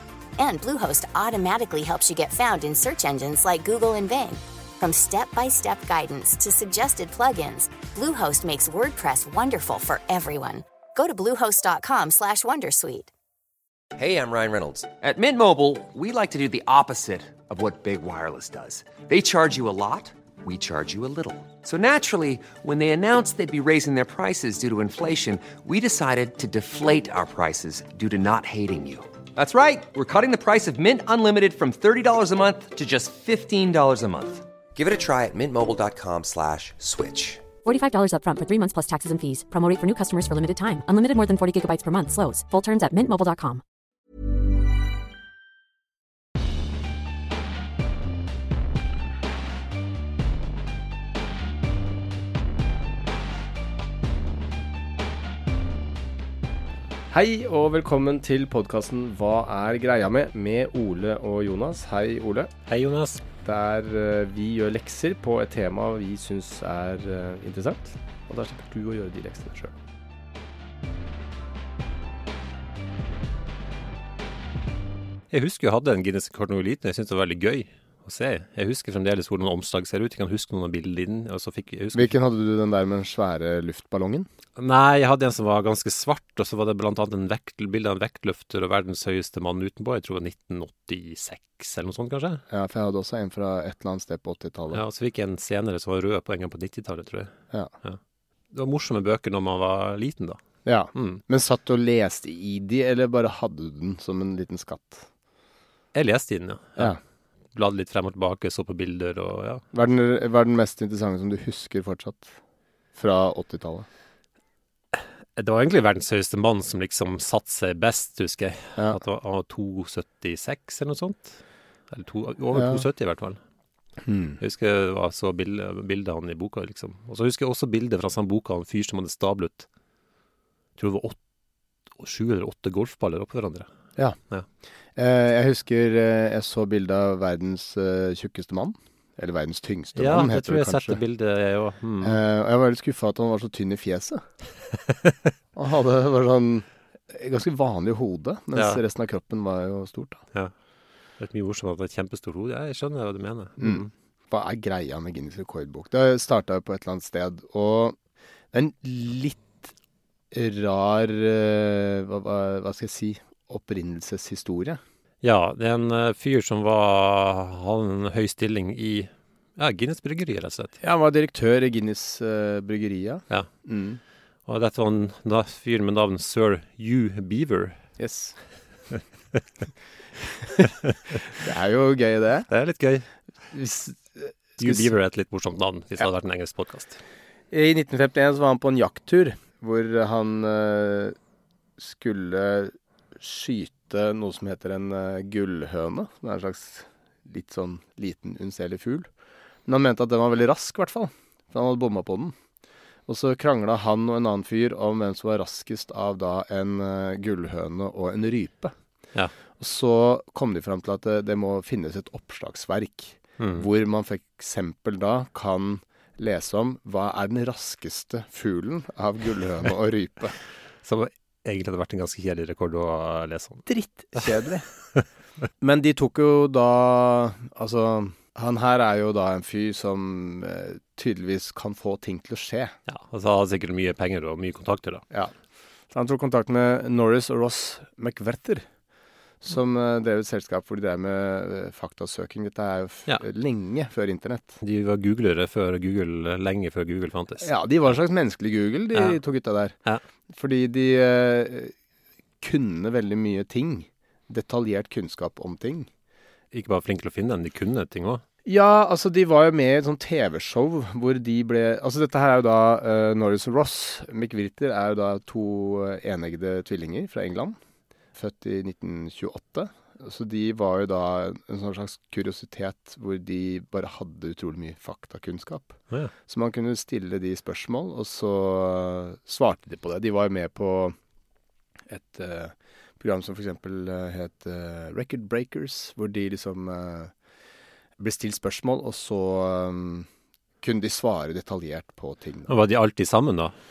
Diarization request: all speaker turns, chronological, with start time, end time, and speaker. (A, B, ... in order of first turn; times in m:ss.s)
0:00.4-0:13.1 A
0:14.0-0:37.4 B
0:37.6-0:43.6 C
0:57.1-1:02.5 D
1:02.7-1:03.2 E
1:03.4-1:09.8 D
1:15.3-1:22.1 E
1:21.9-1:24.3 D
1:24.6-1:32.4 E
1:32.5-1:34.8 D
1:34.7-1:37.3 E
1:38.5-1:40.4 E
1:40.6-1:45.1 D
1:41.0-1:41.2 E
1:46.0-1:46.9 E
1:47.5-1:49.6 E
1:49.7-1:52.4 D
1:53.0-1:53.9 D
1:54.9-2:01.4 E
2:01.9-2:03.4 E
2:02.5-2:02.8 D
2:04.0-2:04.4 D
2:04.4-2:09.7 E
2:10.8-2:11.2 E
2:12.0-2:13.7 E
2:15.0-2:21.0 D
2:20.0-2:22.2 E
2:22.0-2:24.2 D
2:25.6-2:30.2 D
2:28.6-2:28.8 E
2:31.2-2:33.9 E
2:33.6-2:38.0 D
2:38.5-2:39.7 D
2:40.3-2:44.8 D
2:45.2-2:50.8 E
2:50.8-2:54.0 D
2:54.5-2:57.8 E
2:58.0-2:58.4 D
3:00.6-3:00.9 E
3:01.3-3:02.5 D
3:02.5-3:03.1 E
3:03.5-3:04.8 D
3:04.6-3:07.0 E
3:07.5-3:11.2 D
3:11.8-3:19.1 D
3:19.7-3:22.3 D
3:23.1-3:28.7 D
3:29.6-3:40.4 D
3:33.4-3:33.7 E
3:40.8-3:43.6 E
3:43.7-3:44.7 D
3:45.6-3:52.8 D
3:52.9-3:55.0 E
3:55.9-3:58.6 D
3:59.4-4:04.6 D
4:04.6-4:07.5 E
4:07.4-4:09.8 D
4:10.3-4:11.7 D
4:12.4-4:15.9 D
4:16.5-4:18.2 E
4:18.5-4:27.6 D
4:28.2-4:41.0 D
4:41.9-4:47.1 D
4:48.0-4:50.1 D
4:50.6-4:52.5 D
4:52.5-4:53.5 E